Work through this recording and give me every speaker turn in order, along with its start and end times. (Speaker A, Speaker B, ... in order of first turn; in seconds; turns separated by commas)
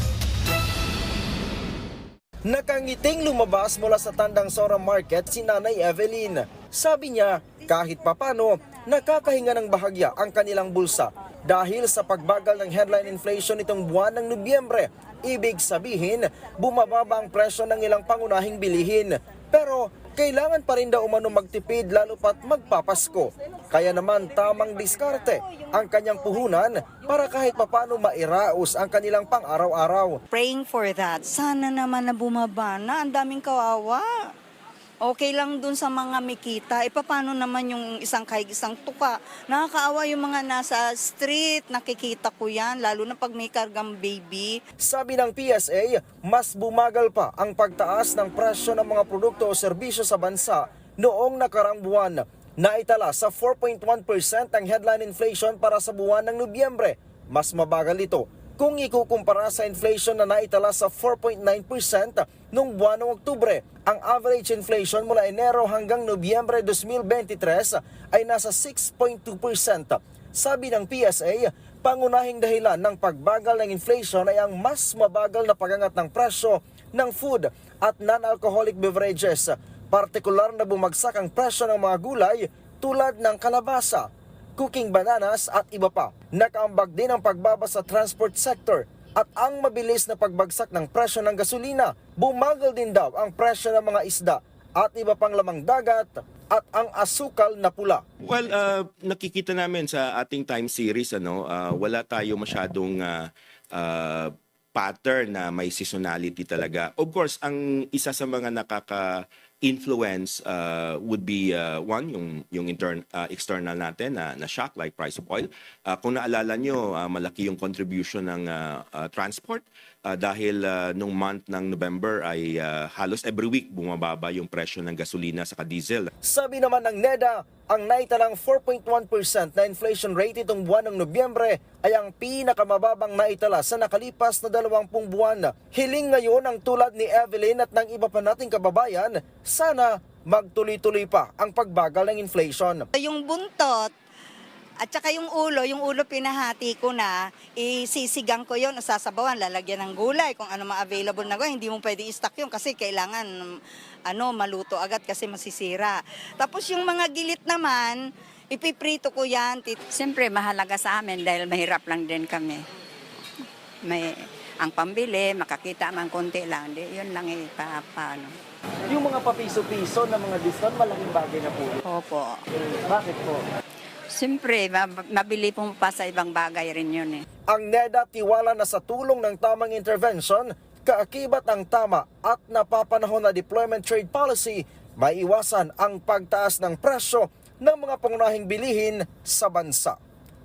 Speaker A: 2.5-30.2, Speaker B: 30.3-34.1, Speaker B: 35.0-44.5, Speaker A: 44.8-98.0, Speaker C: 98.2-126.1, Speaker A: 126.2-142.9, Speaker B: 142.9-143.9, Speaker B: 144.8-153.3, Speaker B: 154.1-159.8, Speaker D: 159.9-162.7, Speaker D: 163.8-168.4, Speaker A: 168.9-171.8, Speaker D: 171.8-172.4, Speaker A: 172.6-173.4, Speaker D: 174.1-177.2, Speaker A: 177.5-190.0